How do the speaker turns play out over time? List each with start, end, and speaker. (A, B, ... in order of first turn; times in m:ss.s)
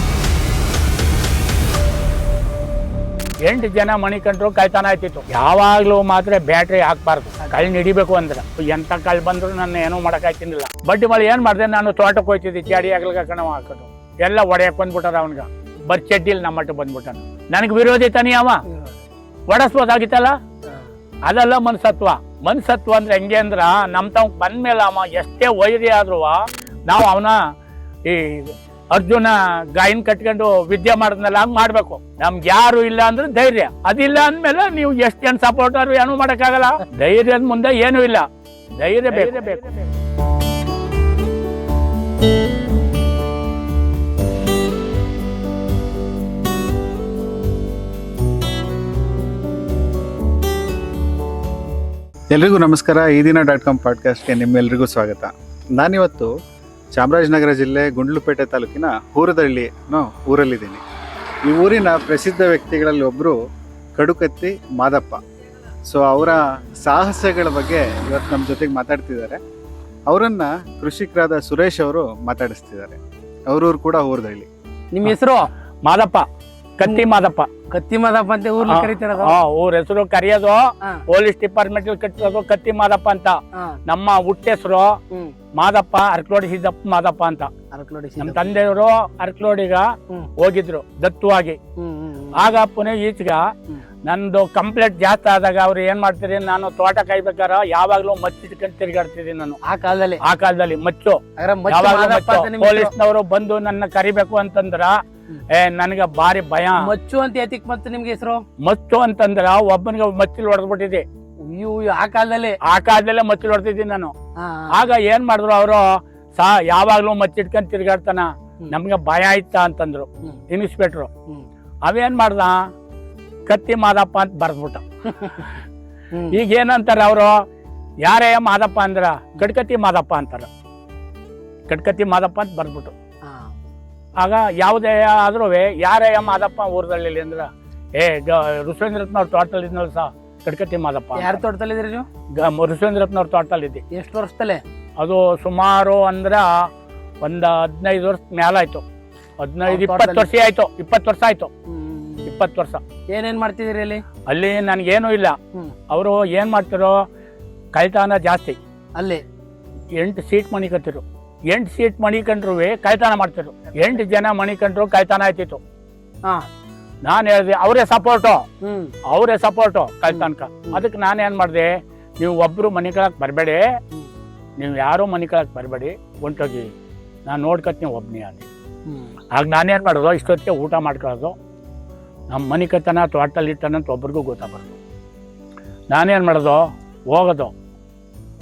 0:03.4-0:18.6 A
0:18.7-0:19.0 B
0:19.5-0:20.4 A
0:21.3-0:27.4 A
0:28.0-0:38.3 A
0:38.8-0:39.7 A
0:52.3-0:56.3 C
0:56.9-1:00.8 C
1:01.5-1:03.4 C
1:04.0-1:05.2 C
1:05.9-1:09.4 C
1:10.1-1:14.5 C
1:14.9-1:15.5 B
1:15.8-1:16.2 A
1:16.8-1:17.5 A
1:17.7-1:19.3 B
1:18.6-1:25.0 A
1:25.5-1:27.5 A
1:27.7-1:28.5 B
1:28.2-1:31.6 A
1:31.8-1:32.5 B
1:32.3-1:33.5 A
1:34.0-1:39.6 A
1:39.7-1:40.2 B
1:40.2-1:46.9 A
1:41.4-1:42.9 B
1:46.8-1:48.4 B
1:48.6-1:51.0 A
1:51.4-1:52.6 B
1:52.6-1:54.1 A
1:54.4-1:54.9 B
1:54.7-2:01.1 A
2:01.8-2:02.7 A
2:03.5-2:05.5 A
2:06.3-2:07.4 A
2:08.0-2:10.5 A
2:11.7-2:12.9 A
2:13.3-2:13.5 B
2:14.2-2:21.4 A
2:21.1-2:22.0 B
2:22.3-2:23.8 A
2:23.9-2:24.6 B
2:25.0-2:26.7 A
2:27.2-2:28.8 A
2:29.4-2:31.5 A
2:29.6-2:30.3 B
2:31.7-2:32.4 B
2:32.2-2:32.8 A
2:33.1-2:34.0 B
2:34.3-2:35.4 A
2:35.9-2:37.0 A
2:37.7-2:38.6 A
2:39.0-2:39.2 B
2:40.0-2:45.6 A
2:47.0-2:48.4 A
2:48.6-2:48.9 B
2:49.1-2:53.6 A
2:50.1-2:50.8 B
2:54.6-2:56.7 A
2:57.3-2:58.5 A
2:58.9-2:59.1 B
2:59.3-3:01.3 A
3:02.3-3:04.8 A
3:05.9-3:07.5 A